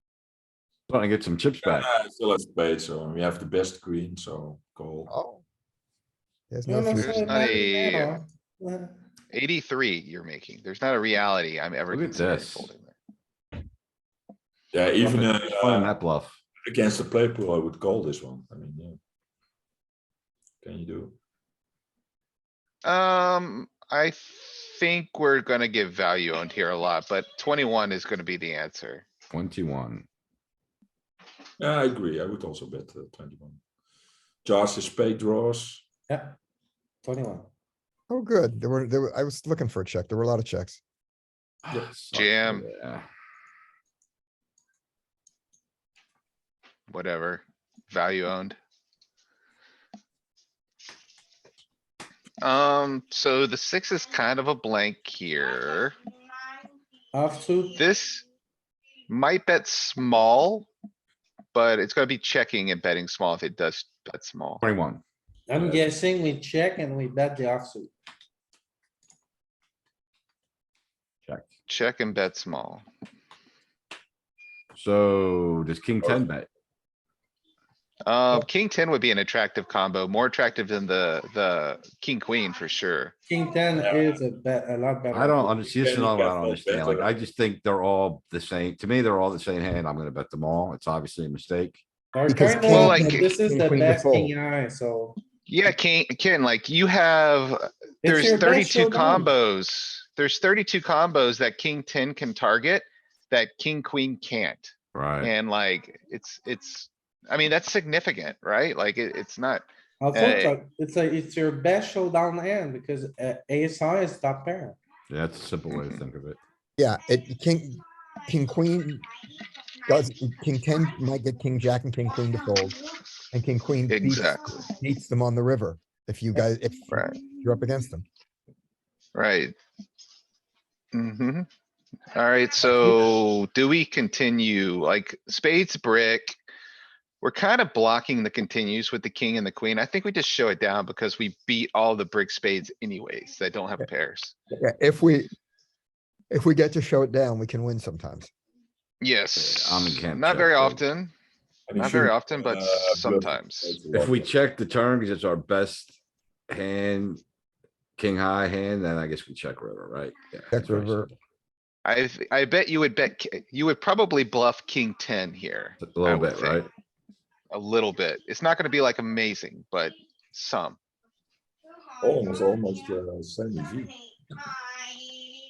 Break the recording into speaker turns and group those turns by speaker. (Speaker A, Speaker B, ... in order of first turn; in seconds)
Speaker A: 0.9-1.9, 11.9-12.7, 15.0-16.4, 29.3-30.1, 41.6-43.1, 64.6-65.0, 74.7-76.5, 85.1-91.8, 104.9-105.3, 115.1-116.4, 149.4-150.8, 153.9-156.0, 156.5-157.2, 158.0-161.1, 165.8-166.7
Speaker B: 1.6-5.1, 14.7-15.9, 16.6-19.0, 20.6-21.2, 31.6-33.6, 34.5-35.8, 83.8-84.2, 85.8-87.1, 151.7-154.3, 172.0-173.9
Speaker C: 5.1-5.4, 6.5-7.5, 38.1-40.8, 92.3-94.3, 116.8-119.1, 119.8-128.1, 144.6-145.3, 146.3-148.3, 160.5-161.1
Speaker D: 6.7-9.0, 36.1-36.4, 37.0-37.5, 57.1-57.8, 65.5-67.9, 83.3-85.8, 92.1-95.2, 98.0-99.3, 110.0-114.8
Speaker E: 7.0-8.2, 9.3-13.0, 22.8-29.1, 42.1-42.7, 46.9-48.6, 52.4-56.0, 57.8-58.2, 59.1-60.7, 61.5-64.6, 71.7-72.8, 78.0-83.1, 92.7-93.3, 95.5-110.6, 115.7-116.0, 123.9-124.7, 126.9-127.2, 129.2-129.5, 130.9-131.5, 132.1-136.4, 137.2-144.3, 149.0-151.1, 151.8-153.8, 161.8-166.7, 167.5-170.8